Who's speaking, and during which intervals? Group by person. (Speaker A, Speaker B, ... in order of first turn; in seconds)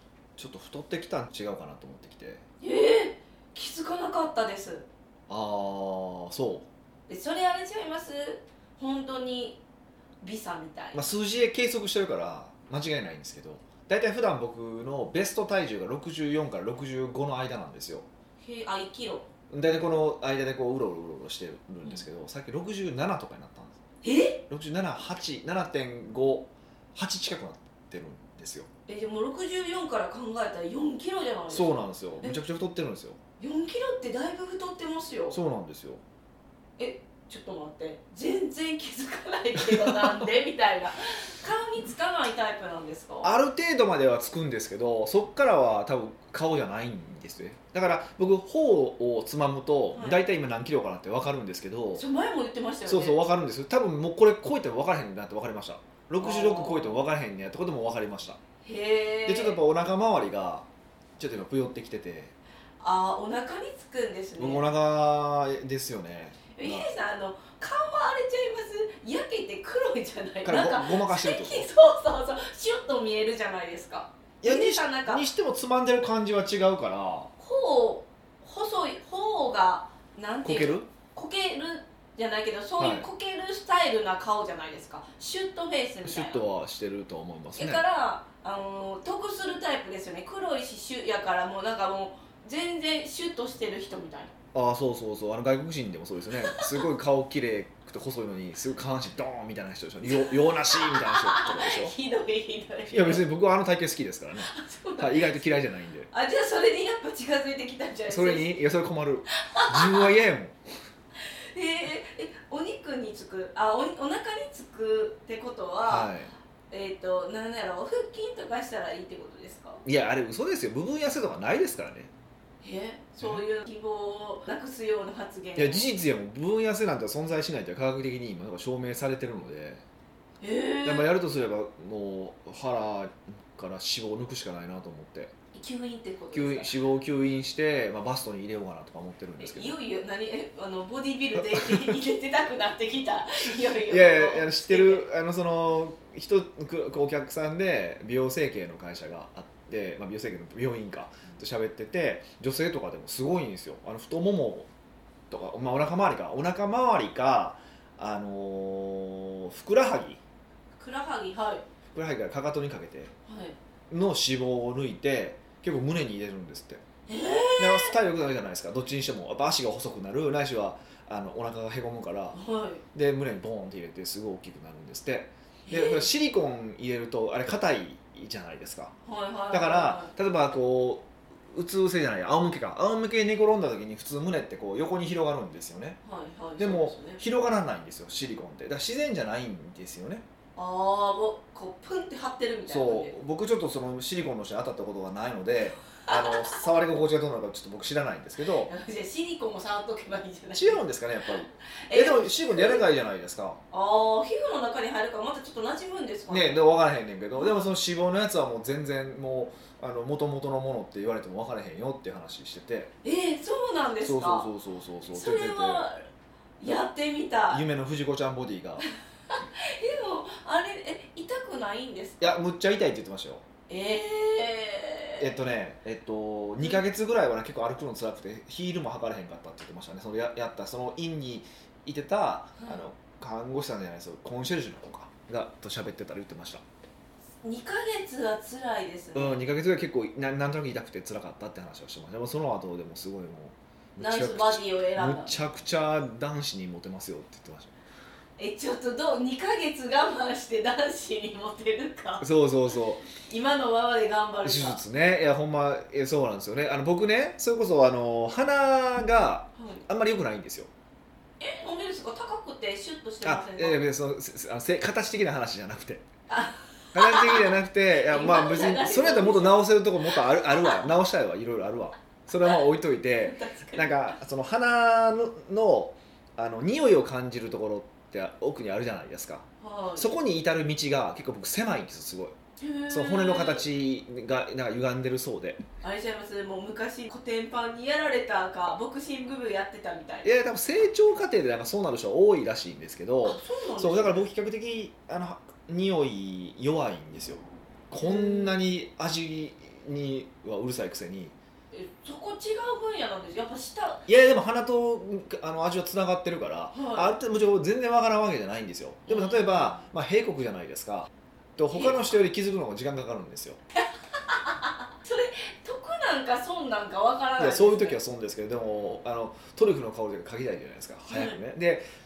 Speaker A: 0.4-2.4, 5.3-6.7, 10.9-18.1, 19.5-23.8, 24.5-28.7, 31.5-33.2, 35.3-36.0, 39.6-40.3, 43.2-52.0, 52.9-58.4, 59.3-60.7, 61.2-62.3, 64.4-66.9, 70.4-71.7, 74.4-77.3, 80.4-80.9, 82.8-83.1, 86.0-87.8, 94.5-101.9, 102.9-106.1, 108.1-110.6, 115.8-116.3, 119.8-122.1, 123.2-123.4, 125.5-129.8, 130.8-135.3, 136.3-139.8, 141.4-141.9, 143.9-154.7, 155.3-160.2, 161.9-163.1, 163.9-166.8, 167.6-172.4, 172.9-178.9, 179.5-186.0, 186.6-190.2, 192.7-198.7, 200.5-203.6, 206.3-212.9, 214.0-215.9, 217.5-218.8, 222.2-223.4, 225.2-236.6, 239.1-247.7, 252.2-253.1, 254.4-260.7, 263.2-266.0, 266.9-282.4, 282.9-285.6, 290.2-301.4, 304.1-313.6, 317.4-321.8
Speaker B: 2.6-4.9, 7.1-9.6, 10.2-11.0, 18.4-19.3, 24.0-24.4, 28.9-32.4, 33.4-35.4, 36.8-43.3, 49.9-50.2, 52.0-53.2, 56.2-57.0, 58.6-59.6, 62.8-64.7, 66.5-75.3, 77.4-86.4, 87.5-94.3, 96.4-96.8, 100.0-103.2, 104.4-105.4, 106.1-108.5, 109.4-110.2, 111.2-116.1, 116.7-119.8, 122.6-125.8, 130.4-131.1, 135.5-136.8, 139.4-145.1, 160.7-161.6, 163.3-163.6, 167.1-167.9, 172.3-172.8, 175.7-176.1, 179.1-180.1, 186.0-187.2, 190.6-193.1, 196.1-196.6, 198.7-200.8, 201.9-202.8, 203.7-206.6, 207.4-207.6, 213.0-214.5, 215.1-216.0, 216.6-217.6, 219.3-222.3, 223.7-225.3, 237.4-239.4, 244.0-245.3, 248.4-252.3, 253.1-254.8, 259.6-259.8, 261.4-263.8, 266.3-270.9, 273.2-274.2, 279.6-280.1, 282.6-283.6, 285.8-290.3, 293.2-294.3, 298.0-298.6, 301.7-304.0, 306.7-307.2, 309.1-309.8, 311.7-312.1, 314.3-318.0, 321.1-321.4